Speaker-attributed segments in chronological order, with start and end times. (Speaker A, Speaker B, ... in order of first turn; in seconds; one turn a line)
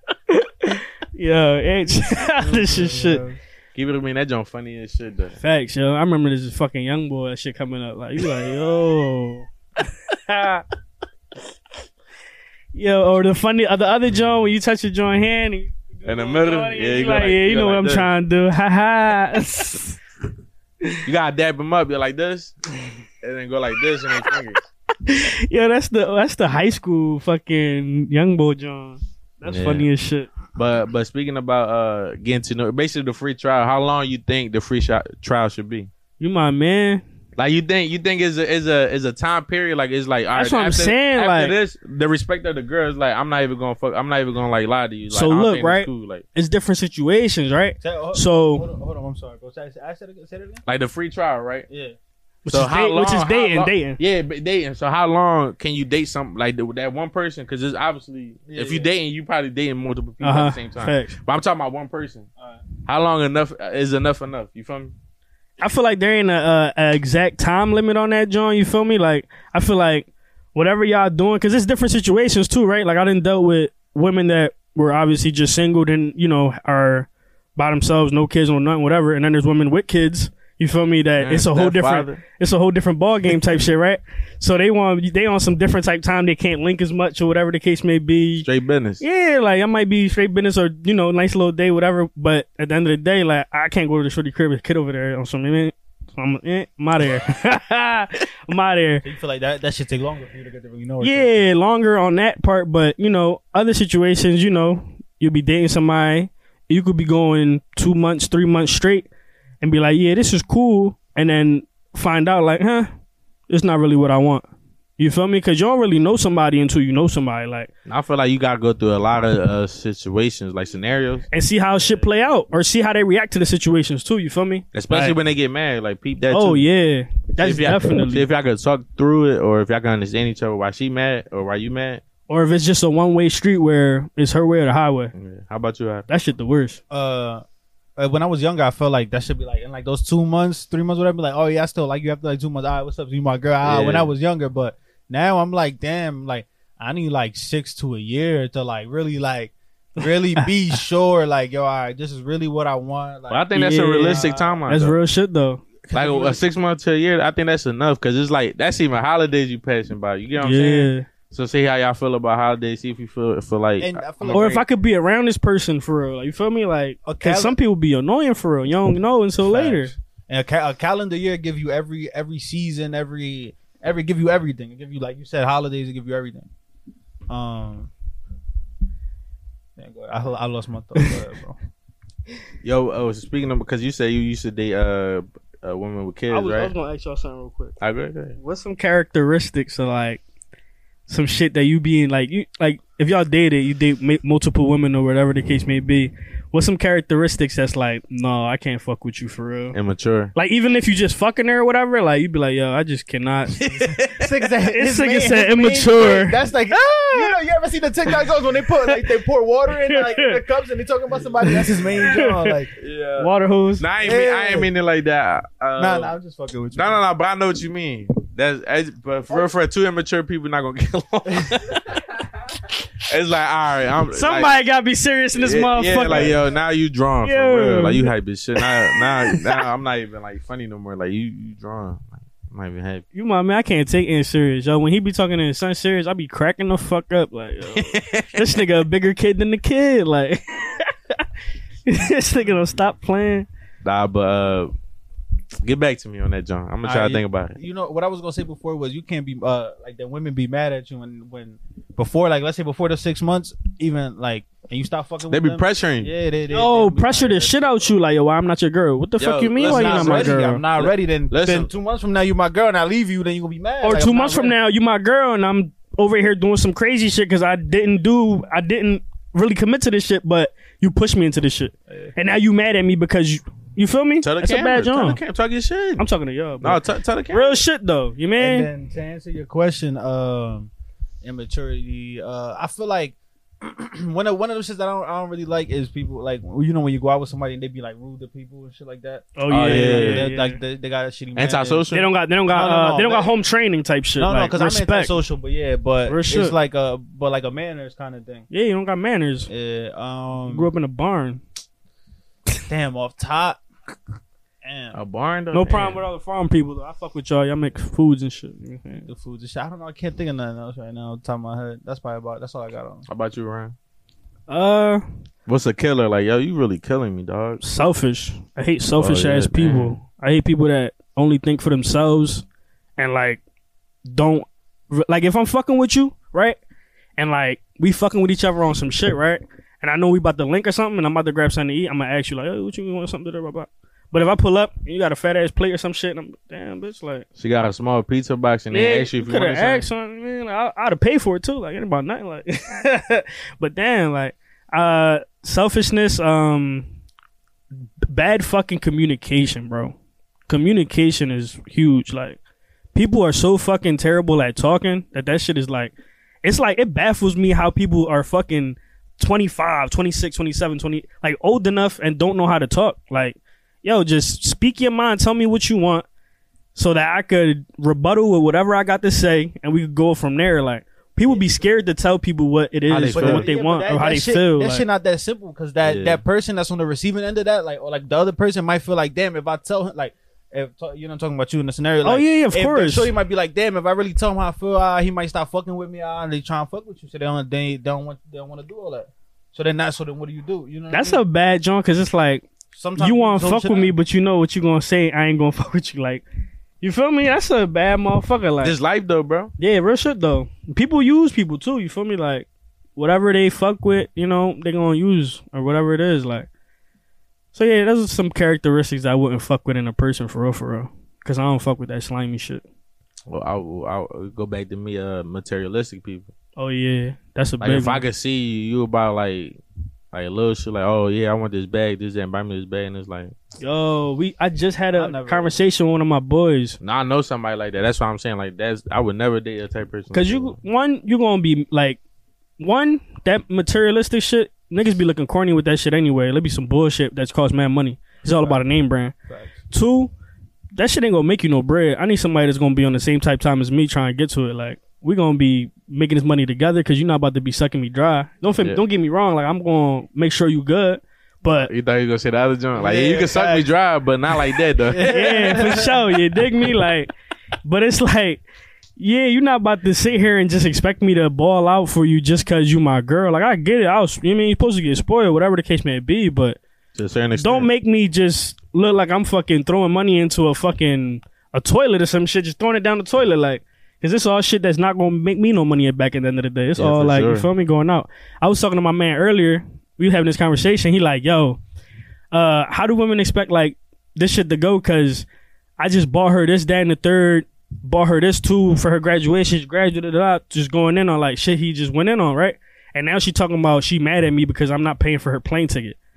Speaker A: 0.3-3.2
Speaker B: 2.4-3.4
Speaker C: 3.7-5.3
Speaker A: 5.4-9.5
Speaker A: 10.1-10.6
Speaker A: 12.7-20.0
Speaker C: 16.0-18.1
Speaker C: 21.0-22.5
Speaker C: 23.2-24.6
Speaker A: 25.0-30.3
Speaker C: 29.4-29.9
Speaker C: 30.6-35.9
Speaker A: 36.2-37.0
Speaker C: 37.4-46.2
Speaker A: 40.3-41.5
Speaker A: 45.1-48.7
Speaker B: 47.8-50.6
Speaker C: 50.6-51.7
Speaker B: 51.7-51.9
Speaker A: 52.4-54.0
Speaker C: 52.5-62.3
Speaker B: 58.5-58.9
Speaker A: 60.2-61.1
Speaker C: 62.9-64.9
Speaker A: 65.6-88.5
Speaker C: 81.2-82.2
Speaker C: 88.4-89.0
Speaker A: 89.0-99.0
Speaker B: 99.0-101.5
Speaker A: 101.0-109.1
Speaker A: 109.6-112.9
Speaker A: 113.5-114.4
Speaker A: 115.0-117.7
Speaker C: 117.8-121.3
Speaker A: 121.3-125.2
Speaker C: 124.7-126.7
Speaker A: 126.3-128.2
Speaker C: 127.4-132.0
Speaker A: 132.3-135.1
Speaker C: 135.1-136.1
Speaker A: 136.1-136.8
Speaker B: 136.9-137.4
Speaker B: 138.0-153.5
Speaker C: 143.6-144.1
Speaker C: 153.3-154.9
Speaker A: 153.5-155.6
Speaker B: 154.0-154.6
Speaker B: 155.8-156.4
Speaker C: 155.9-164.6
Speaker A: 160.4-161.1
Speaker B: 163.8-164.5
Speaker A: 164.3-169.9
Speaker B: 167.1-167.6
Speaker B: 169.4-176.5
Speaker B: 177.3-177.9
Speaker B: 179.8-181.6
Speaker C: 182.6-186.7
Speaker A: 186.3-187.8
Speaker C: 187.8-188.3
Speaker A: 188.4-190.2
Speaker A: 191.1-199.8
Speaker C: 199.7-200.3
Speaker A: 200.3-203.6
Speaker C: 203.6-204.3
Speaker B: 204.0-212.7
Speaker A: 204.7-206.4
Speaker A: 206.9-207.3
Speaker A: 209.8-210.3
Speaker A: 211.4-212.5
Speaker C: 212.8-216.1
Speaker A: 213.2-213.9
Speaker B: 214.0-214.7
Speaker B: 215.8-217.0
Speaker C: 216.7-222.2
Speaker C: 223.0-224.5
Speaker A: 224.1-226.4
Speaker C: 225.3-233.0
Speaker B: 226.1-226.4
Speaker A: 227.2-229.6
Speaker A: 233.1-241.2
Speaker C: 237.7-238.6
Speaker A: 241.9-243.5
Speaker C: 243.8-244.7
Speaker C: 245.6-247.6
Speaker B: 246.8-257.9
Speaker C: 255.3-256.1
Speaker A: 256.5-260.6
Speaker C: 259.2-261.7
Speaker B: 259.6-264.5
Speaker A: 263.8-275.2
Speaker C: 274.2-276.0
Speaker A: 276.0-278.7
Speaker C: 276.6-277.6
Speaker B: 278.4-280.7
Speaker B: 281.2-291.9
Speaker A: 289.4-290.6
Speaker C: 289.5-290.2
Speaker C: 291.4-292.1
Speaker A: 291.9-295.1
Speaker B: 292.5-293.3
Speaker B: 294.2-298.5
Speaker A: 296.1-296.5
Speaker A: 298.5-299.5
Speaker B: 299.5-300.7
Speaker A: 300.5-301.4
Speaker B: 302.7-303.6
Speaker B: 304.6-305.0
Speaker C: 304.9-306.0
Speaker A: 305.5-309.1
Speaker B: 309.1-313.0
Speaker C: 313.1-313.7
Speaker A: 314.5-315.0
Speaker C: 315.4-317.6
Speaker A: 317.6-322.4
Speaker C: 319.0-320.0
Speaker A: 323.0-323.4
Speaker A: 324.1-326.6
Speaker A: 327.2-337.2
Speaker C: 337.4-339.9
Speaker A: 338.7-346.9
Speaker A: 348.1-349.9
Speaker A: 350.5-352.4
Speaker A: 352.9-366.0
Speaker A: 366.7-374.8
Speaker B: 371.3-371.5
Speaker C: 372.9-373.5
Speaker B: 373.1-391.2
Speaker C: 375.8-376.2
Speaker A: 382.0-383.1
Speaker A: 390.9-396.2
Speaker B: 392.7-393.9
Speaker A: 396.8-398.8
Speaker C: 398.6-399.5
Speaker A: 399.6-406.5
Speaker A: 407.5-412.6
Speaker C: 413.3-416.3
Speaker A: 416.6-418.0
Speaker C: 417.6-419.6
Speaker C: 420.1-423.3
Speaker A: 423.6-426.8
Speaker B: 424.9-425.6
Speaker C: 426.8-430.6
Speaker A: 430.1-432.0
Speaker A: 432.6-439.1
Speaker B: 439.3-439.6
Speaker A: 439.7-440.1
Speaker A: 440.8-451.7
Speaker C: 451.5-455.8
Speaker B: 452.8-453.7
Speaker B: 454.8-456.0
Speaker A: 455.1-457.1
Speaker A: 457.6-458.4
Speaker A: 459.0-466.6
Speaker C: 466.9-467.7
Speaker A: 467.4-481.6
Speaker C: 476.8-477.5
Speaker A: 482.3-485.2
Speaker A: 485.8-495.9